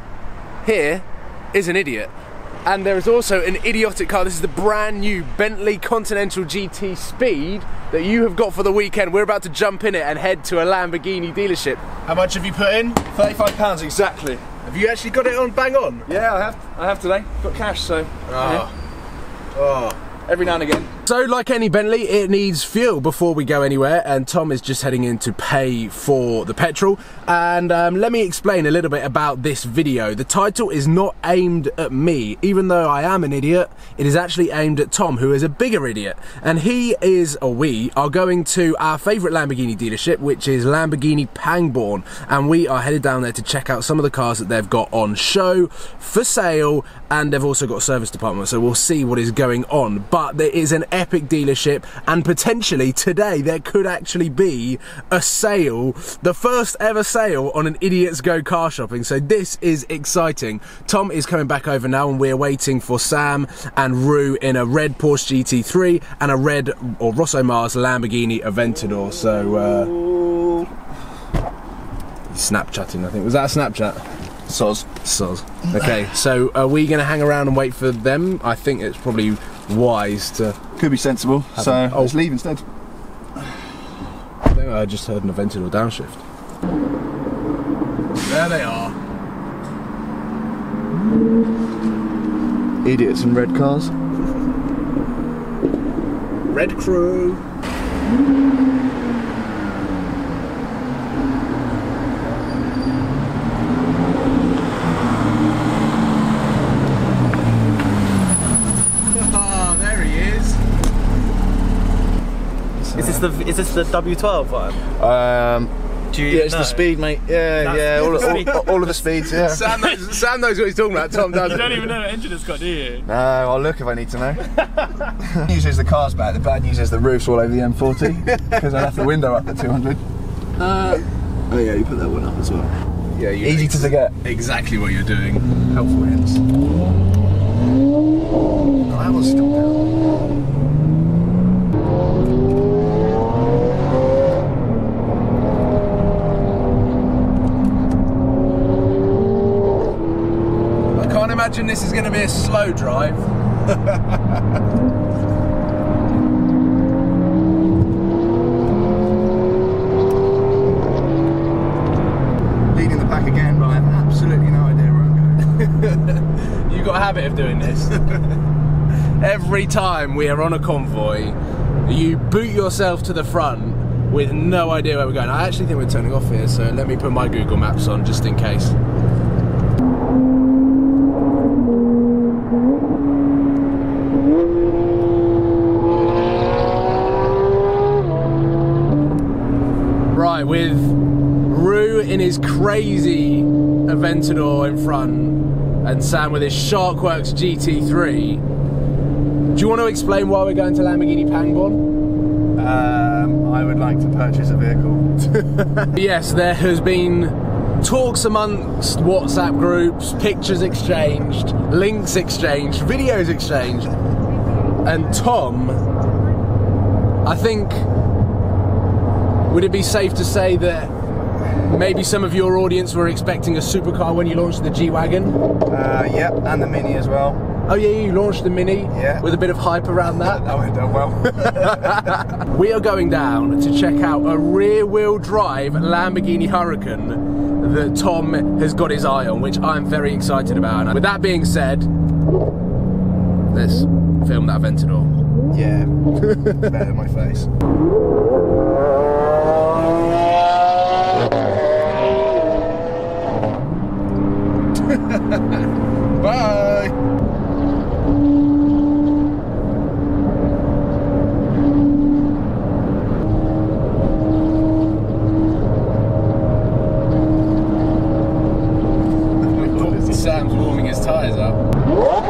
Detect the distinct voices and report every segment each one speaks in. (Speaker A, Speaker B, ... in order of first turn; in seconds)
Speaker A: 0.6-2.1, 2.6-13.0, 14.6-16.1, 18.3-18.7, 21.0-69.9, 72.3-74.0, 75.0-80.6, 81.5-82.1, 84.4-86.2, 88.2-89.0, 96.5-97.4, 109.1-110.6, 118.1-118.6, 119.2-122.0, 128.1-129.0, 130.6-131.1, 133.1-135.8, 150.9-154.0, 165.5-168.4, 169.2-178.8, 190.1-198.4, 199.5-201.8, 205.6-213.9, 214.8-215.8, 217.2-217.8, 219.5-220.9, 221.5-225.4, 227.7-230.5, 231.3-241.9, 243.5-245.1, 246.3-246.6, 254.8-255.6, 256.2-256.9, 269.5-271.6
Speaker B: 13.1-14.4, 16.1-18.7, 19.5-20.9, 69.3-70.7, 74.5-74.9, 80.8-82.6, 92.8-93.9, 112.8-113.3, 115.0-115.7, 116.2-119.8, 123.0-124.4, 125.1-130.0, 131.5-132.7, 133.4-134.1, 135.7-136.4, 138.9-139.8, 162.7-165.4, 202.6-205.3, 225.7-227.4, 228.9-229.3, 230.2-232.2, 245.5-247.5
Speaker C: 112.9-114.8, 116.1-116.9, 117.6-119.0, 121.3-123.1